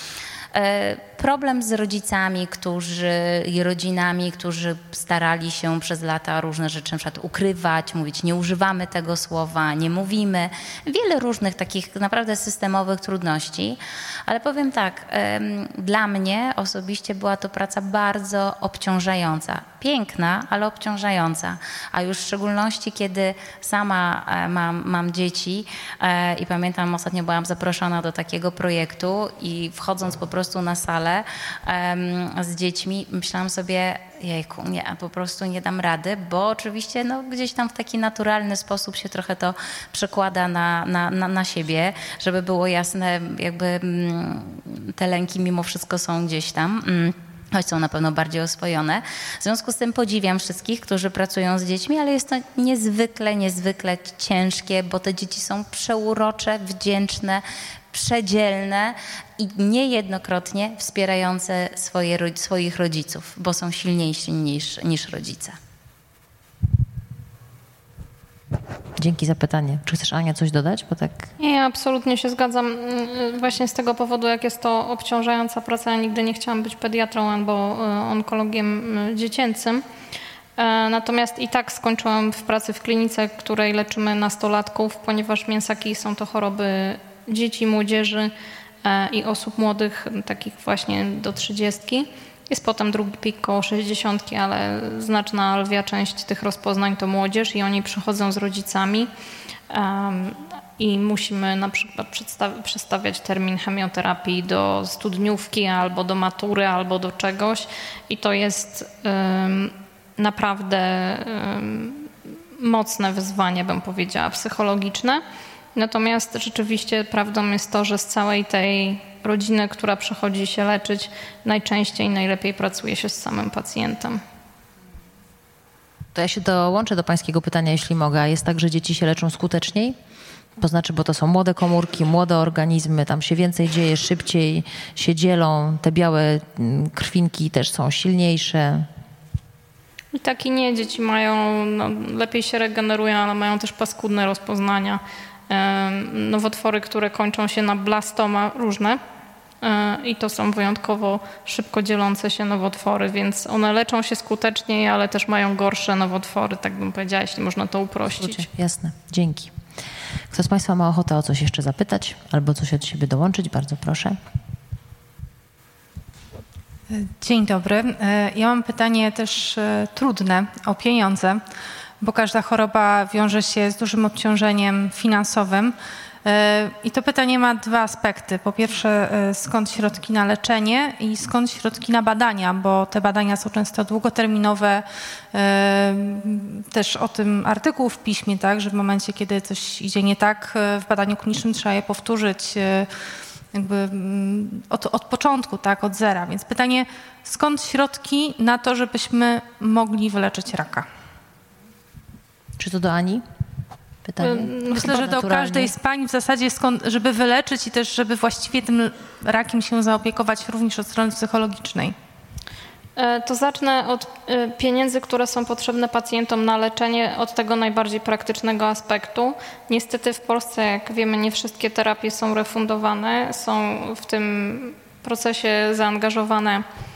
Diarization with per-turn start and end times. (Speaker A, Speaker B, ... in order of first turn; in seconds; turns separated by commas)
Speaker A: 0.5-65.6, Speaker B: 69.0-71.3, Speaker C: 71.4-79.8, Speaker C: 80.6-88.3, Speaker C: 88.8-99.1, Speaker C: 99.7-115.2, Speaker C: 115.7-124.2, Speaker B: 126.1-130.0, Speaker B: 130.6-138.9, Speaker C: 140.1-149.0, Speaker C: 149.6-158.4, Speaker B: 158.1-159.5, Speaker B: 160.3-164.2, Speaker D: 166.9-171.4, Speaker D: 172.0-192.9, Speaker D: 193.5-200.8, Speaker B: 202.6-203.2, Speaker B: 204.0-205.8, Speaker D: 204.3-211.9, Speaker C: 213.0-226.7